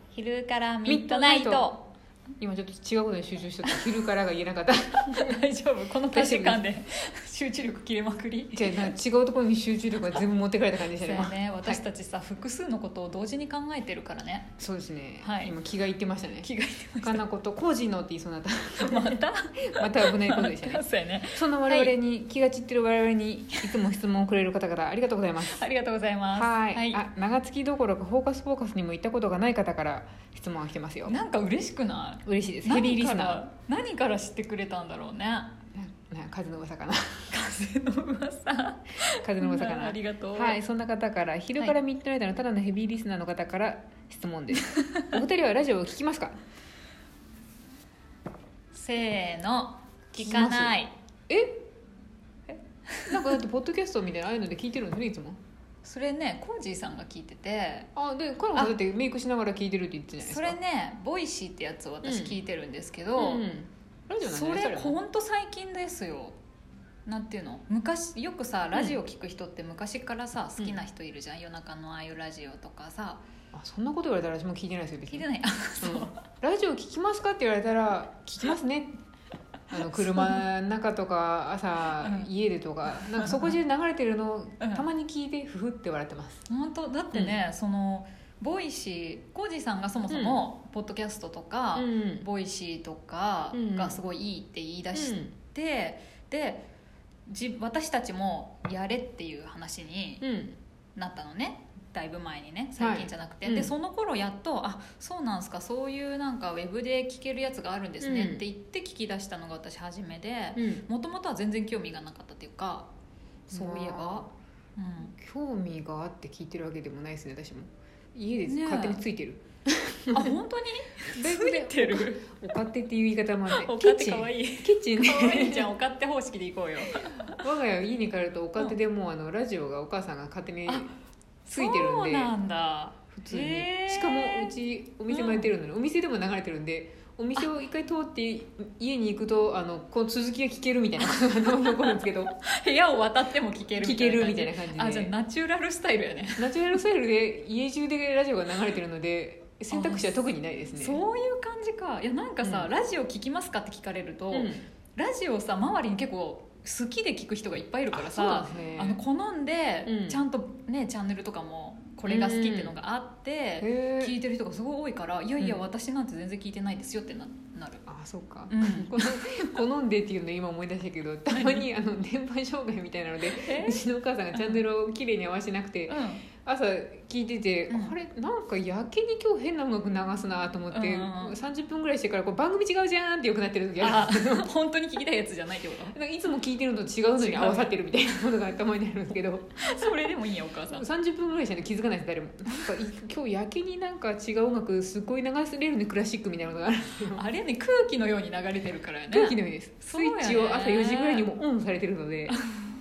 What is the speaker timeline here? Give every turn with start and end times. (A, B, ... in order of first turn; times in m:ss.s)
0:00.1-0:01.9 A
0:00.8-0:01.7 B
0:02.4-0:05.4 B
0:03.6-0:03.9 A
0:05.1-0:08.9 A
0:06.1-0:06.6 B
0:08.5-0:11.8 B
0:11.0-0:14.5 A
0:14.6-0:16.5 B
0:15.2-0:15.6 A
0:16.4-0:17.2 A
0:17.0-0:25.6 B
0:18.8-0:21.9 A
0:25.5-0:27.0 A
0:26.3-0:31.2 B
0:31.0-0:35.6 A
0:32.2-0:33.4 B
0:35.7-0:37.3 B
0:37.3-0:40.6 A
0:39.2-0:46.4 B
0:44.7-0:45.1 A
0:48.7-0:50.9 A
0:50.1-0:50.7 B
0:51.3-0:51.6 B
0:52.5-0:53.4 A
0:53.1-0:55.4 B
0:55.8-0:57.9 A
0:58.0-1:00.6 B
1:00.2-1:03.4 A
1:02.0-1:02.4 B
1:03.2-1:05.0 B
1:04.2-1:06.4 A
1:07.0-1:13.2 A
1:13.5-1:15.3 B
1:15.1-1:16.2 A
1:15.8-1:19.0 B
1:19.7-1:26.4 B
1:19.9-1:20.4 A
1:22.0-1:22.3 A
1:22.9-1:23.6 A
1:24.6-1:24.8 A
1:26.5-1:36.7 A
1:30.1-1:30.4 B
1:31.7-1:32.3 B
1:33.5-1:34.0 B
1:34.9-1:35.3 B
1:37.3-1:40.2 A
1:40.2-1:40.6 B
1:41.0-1:52.9 A
1:42.8-1:43.7 B
1:48.0-1:48.4 B
1:50.6-1:50.8 B
1:53.5-1:54.3 B
1:53.5-1:55.1 A
1:55.1-2:00.4 B
1:58.4-1:59.0 A
2:00.1-2:02.2 A
2:01.0-2:05.7 B
2:03.5-2:07.4 A
2:07.0-2:10.9 B
2:11.4-2:14.5 A
2:11.5-2:12.3 B
2:13.1-2:22.3 B
2:15.1-2:15.5 A
2:21.1-2:26.6 A
2:23.8-2:25.1 B
2:26.4-2:31.0 B
2:29.7-2:30.1 A
2:30.8-2:47.8 A
2:32.4-2:32.7 B
2:34.3-2:34.6 B
2:37.9-2:39.0 B
2:39.8-2:40.2 B
2:42.1-2:42.8 B
2:43.6-2:44.2 B
2:45.4-2:45.7 B
2:47.9-3:04.5 B
2:48.5-2:49.6 A
2:51.3-2:51.6 A
2:53.3-2:54.6 A
2:55.9-2:56.2 A
2:57.7-2:57.9 A
3:00.7-3:01.4 A
3:03.8-3:05.9 A
3:05.9-3:09.9 B
3:07.2-3:07.7 A
3:09.6-3:10.8 A
3:10.7-3:17.2 B
3:17.1-3:21.3 A
3:19.1-3:22.4 B
3:22.3-3:22.7 A